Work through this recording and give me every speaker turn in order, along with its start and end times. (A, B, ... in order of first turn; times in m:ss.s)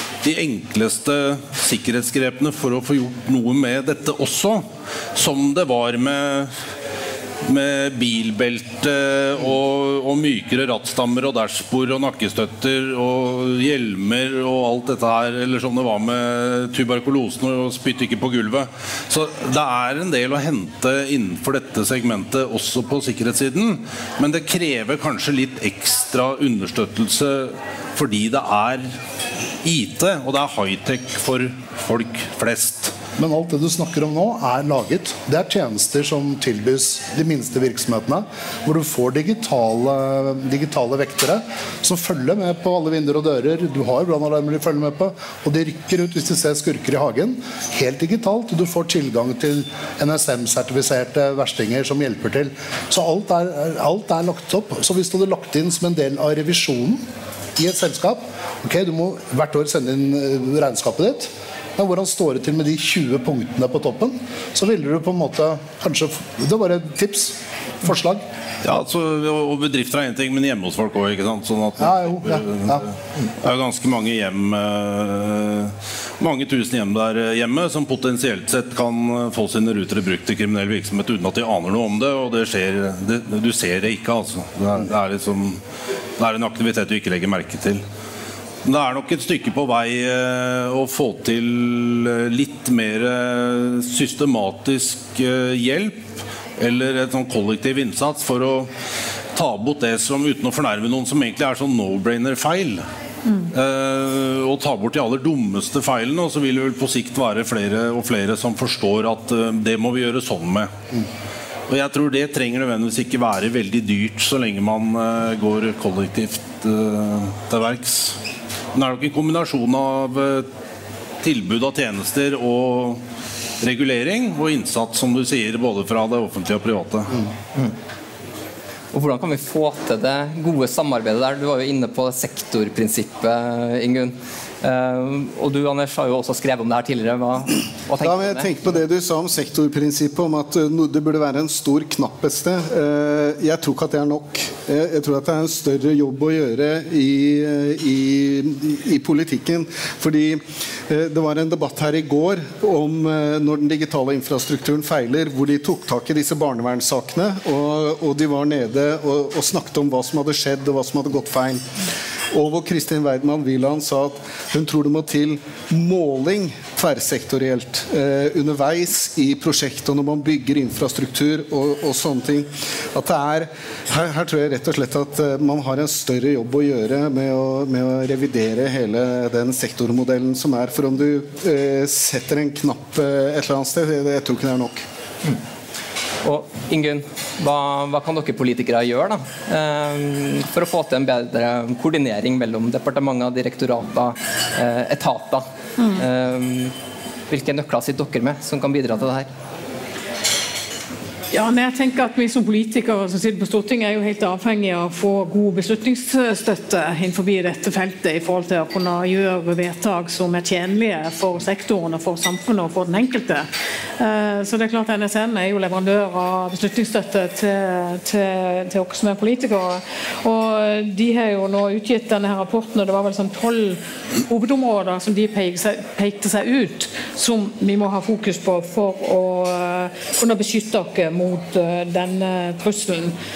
0:00.2-0:04.6 A
0:05.2-0:06.5 A
0:07.4-0:29.0 A
0:29.6-0:32.9 A
0:33.2-0:57.0 B
0:57.6-1:08.2 B
1:08.6-1:25.6 A
1:11.8-1:12.8 B
1:26.2-1:27.8 A
1:28.6-1:38.7 A
1:39.4-1:42.8 A
1:43.5-1:50.7 A
1:51.7-1:58.2 A
1:58.8-2:00.5 A
2:01.2-2:03.0 A
2:03.6-2:07.3 A
2:08.9-2:18.5 C
2:18.0-2:41.7 D
2:42.3-3:04.8 D
3:06.2-3:16.7 C
3:17.3-3:19.3 C
3:21.3-3:33.5 E
3:34.0-3:53.1 E